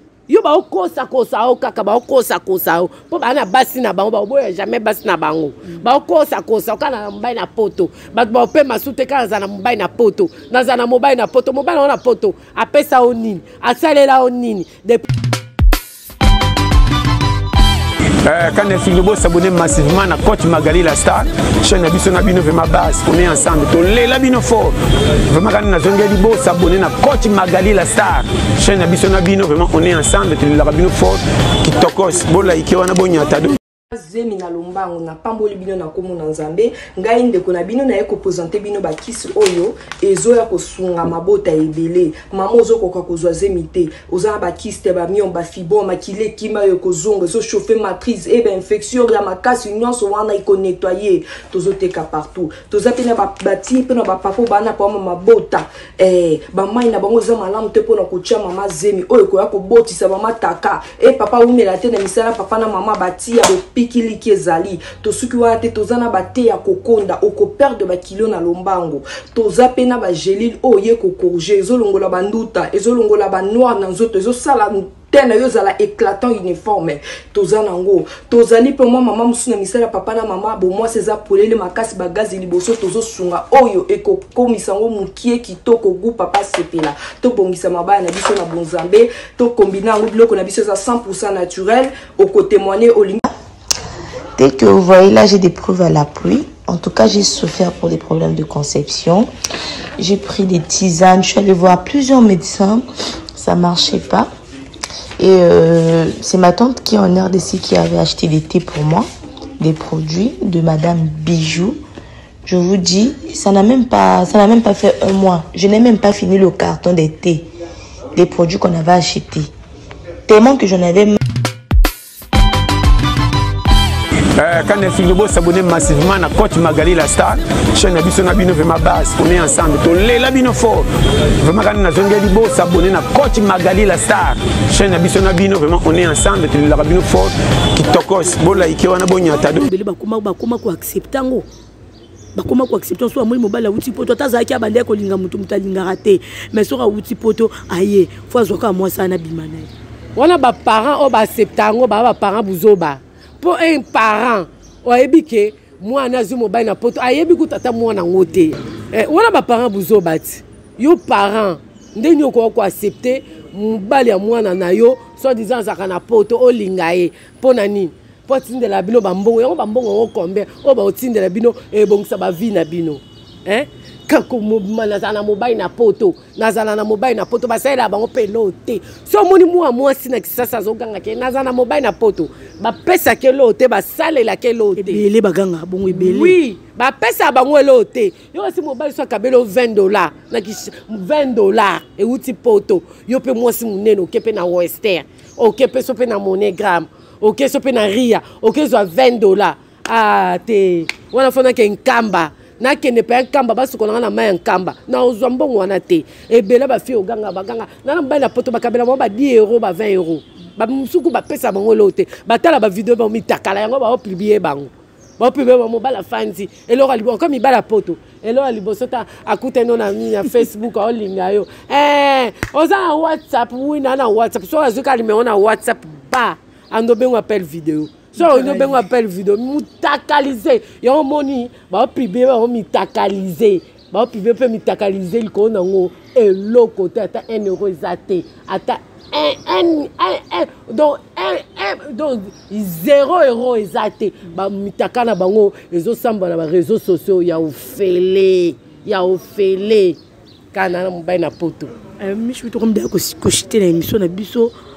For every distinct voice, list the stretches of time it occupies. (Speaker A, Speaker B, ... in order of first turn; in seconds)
Speaker A: 0.3-15.1, 150.2-185.0, 185.9-250.0, 250.5-251.7
Speaker B: 18.2-24.7, 25.3-33.6, 124.3-130.9, 131.4-139.7
Speaker C: 33.9-93.3
Speaker D: 94.4-99.3, 100.0-102.8, 103.3-104.3, 105.2-109.1, 109.6-111.8, 112.4-117.5, 118.1-119.5, 120.2-121.2
Speaker E: 139.5-141.4, 142.3-149.7, 184.8-186.4, 228.2-228.8, 252.0-254.5